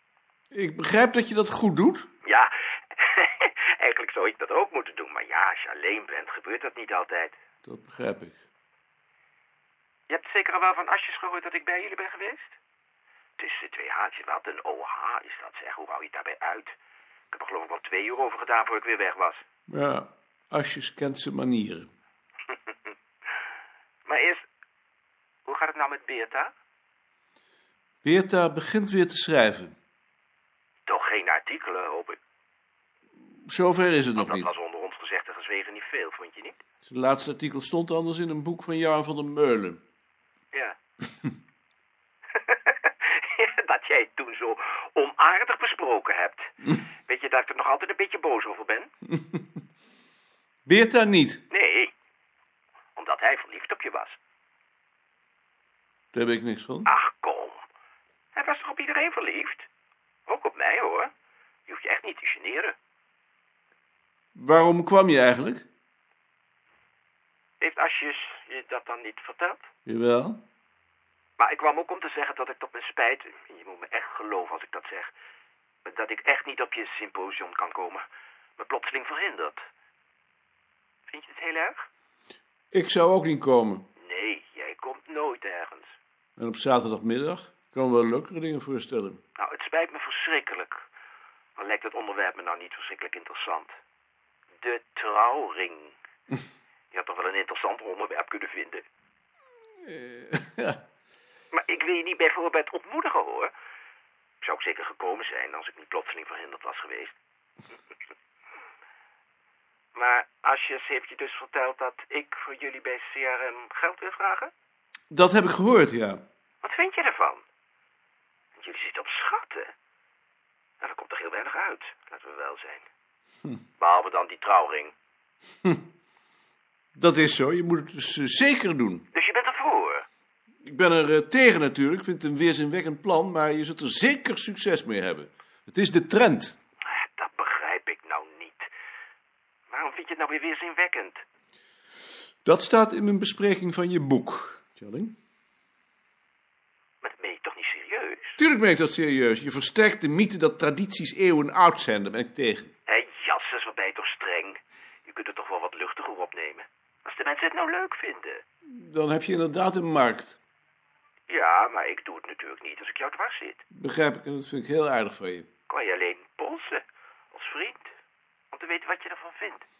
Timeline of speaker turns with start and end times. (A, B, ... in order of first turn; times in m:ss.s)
0:00.5-0:02.1 A
0:02.2-0:07.4 B
0:07.6-0:08.4 A
0:10.1-0:12.5 B
0:13.4-0:16.7 B
0:17.3-0:19.4 B
0:19.7-0:21.9 A
0:24.0-0:24.4 B
0:25.4-0:26.5 B
0:28.0-0:29.7 A
0:30.8-0:32.2 B
0:33.5-0:34.5 A
0:34.2-0:36.6 B
0:36.8-0:39.8 A
0:42.4-0:48.9 B
0:50.6-0:51.4 A
0:51.5-0:51.9 B
0:53.0-0:54.2 B
0:56.1-0:56.9 A
0:56.8-0:57.6 B
0:58.3-0:59.7 B
1:00.3-1:01.1 B
1:01.7-1:02.7 B
1:04.4-1:05.6 A
1:07.6-1:09.7 B
1:09.9-1:10.4 A
1:11.4-1:15.1 B
1:15.8-1:18.0 B
1:18.6-1:19.6 B
1:21.1-1:21.8 B
1:22.7-1:23.8 A
1:24.0-1:25.9 B
1:26.4-1:29.2 A
1:29.4-1:30.8 B
1:31.6-1:33.8 B
1:34.6-1:36.0 B
1:36.9-1:38.8 B
1:39.8-1:40.8 A
1:41.5-1:43.5 B
1:44.4-1:47.1 B
1:49.9-1:54.5 B
1:55.1-1:56.2 A
1:56.6-1:57.4 B
1:58.6-1:59.7 B
2:00.8-2:02.8 B
2:03.8-2:04.9 B
2:07.0-2:09.1 A
2:09.1-2:10.0 B
2:10.6-2:16.6 A
2:16.8-2:18.7 B
2:19.7-2:21.2 B
2:22.4-2:25.1 A
2:27.0-2:28.4 B
2:28.4-2:32.7 A
2:32.9-2:38.4 B
2:38.7-2:40.4 A
2:41.3-2:43.6 B
2:43.7-2:45.5 A
2:45.7-2:47.9 B
2:48.5-2:49.6 B